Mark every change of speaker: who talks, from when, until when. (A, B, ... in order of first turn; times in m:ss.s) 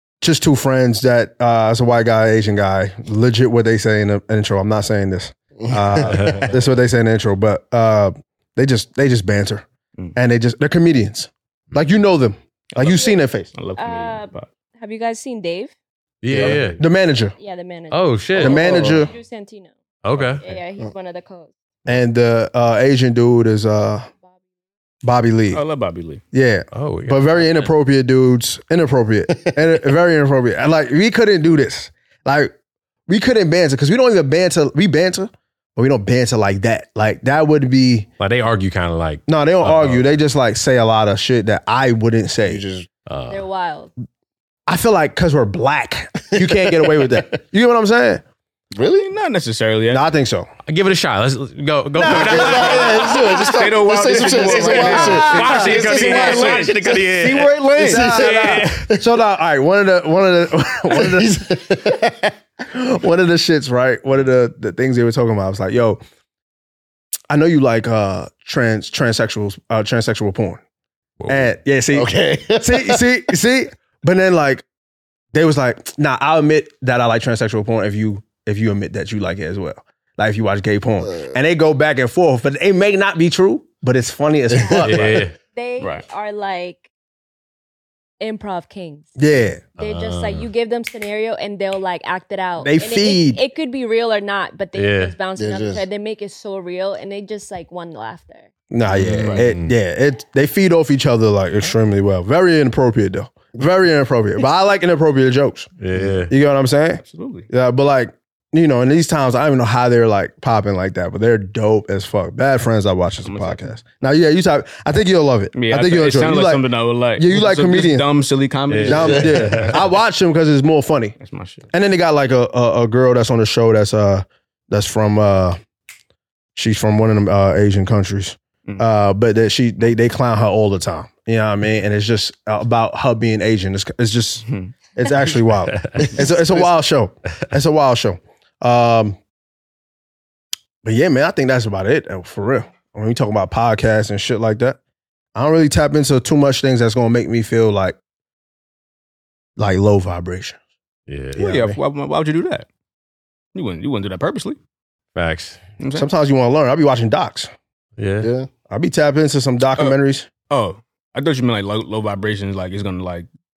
0:00.2-0:13.5 A
0:05.6-0:06.5 B
0:06.1-0:06.5 C
0:06.1-0:06.6 D
0:12.8-0:14.5 D
0:12.8-0:13.2 E
0:13.8-0:15.7 E
0:16.2-0:16.8 C
0:16.3-0:16.8 D
0:16.3-0:16.7 B
0:16.8-0:17.4 A
0:17.4-0:21.5 E
0:17.9-0:18.7 C
0:18.4-0:19.1 A
0:18.8-0:19.0 D
0:20.0-0:20.4 C
0:20.2-0:20.6 D
0:21.9-0:24.1 A
0:25.0-0:25.6 A
0:25.5-0:26.2 D
0:26.3-0:32.5 A
0:26.7-0:27.7 C
0:33.1-0:38.1 A
0:38.2-0:40.1 C
0:39.3-0:42.6 A
0:42.4-0:42.9 B
0:43.1-0:43.4 C
0:43.3-0:43.9 E
0:44.7-0:48.2 A
0:46.4-0:47.2 B
0:48.8-0:49.1 B
0:49.0-0:50.0 D
0:49.9-0:50.5 A
0:50.7-0:53.6 C
0:52.0-0:57.0 B
0:52.0-0:58.1 D
0:54.0-0:55.9 A
0:54.9-0:58.8 C
0:57.8-0:59.0 B
0:57.8-1:01.4 A
1:00.9-1:02.3 B
1:02.7-1:06.0 A
1:07.3-1:10.6 A
1:11.2-1:11.5 C
1:11.3-1:14.6 A
1:11.9-1:13.0 B
1:15.3-1:25.3 A
1:21.0-1:21.4 B
1:24.5-1:24.8 B
1:24.6-1:26.9 E
1:24.8-1:25.4 C
1:25.8-1:26.0 D
1:28.2-1:29.1 E
1:29.2-1:29.6 A
1:29.8-1:38.5 E
1:29.8-1:30.5 C
1:32.6-1:33.4 A
1:34.8-1:35.1 C
1:35.4-1:35.8 B
1:38.7-1:45.7 A
1:38.9-1:39.8 C
1:39.0-1:39.5 D
1:45.8-1:46.3 C
1:46.3-1:58.1 A
1:47.0-1:47.5 D
1:53.2-1:53.7 D
1:55.5-1:59.8 D
1:58.7-1:59.8 C
1:58.8-2:01.2 A
1:59.0-1:59.4 B
2:01.2-2:01.6 D
2:01.7-2:05.6 A
2:06.6-2:19.2 A
2:14.5-2:14.7 D
2:15.7-2:16.2 C
2:20.8-2:24.8 A
2:25.4-2:28.0 A
2:29.6-2:30.6 A
2:31.1-2:31.4 C
2:31.4-2:31.8 A
2:31.4-2:32.7 D
2:33.5-2:34.6 D
2:35.2-2:35.6 C
2:35.8-2:36.1 D
2:35.9-2:37.5 A
2:38.0-2:38.3 C
2:38.2-2:38.5 B
2:38.7-2:40.3 A
2:40.5-2:43.3 D